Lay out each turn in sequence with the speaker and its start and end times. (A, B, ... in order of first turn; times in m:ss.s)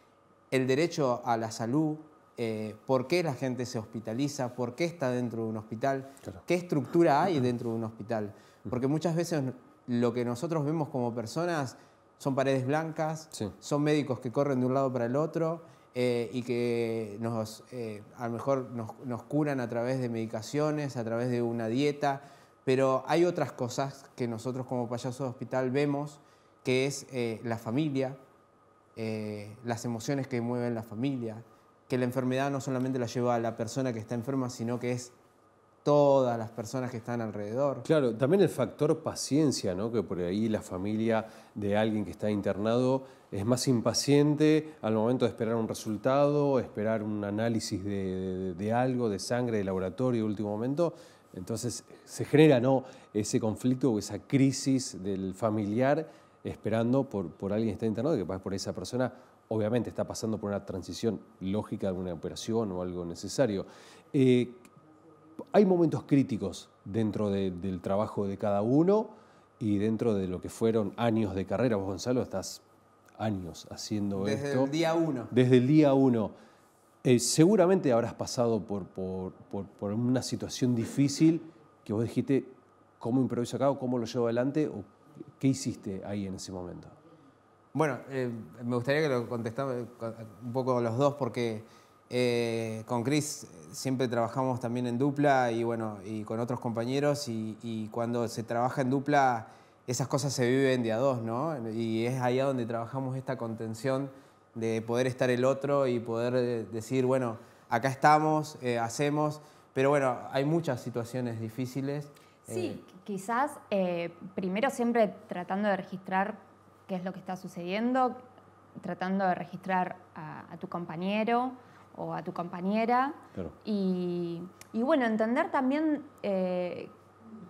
0:00.5-0:28.2 A
0:29.0-0:35.1 A
0:35.8-0:37.9 A
0:37.8-1:04.7 B
1:05.5-1:12.6 B
1:13.2-1:14.7 B
1:14.2-1:15.3 A
1:15.3-1:16.3 B
1:17.0-1:27.0 B
1:27.7-1:52.8 A
1:52.5-1:58.2 C
1:58.8-2:07.0 C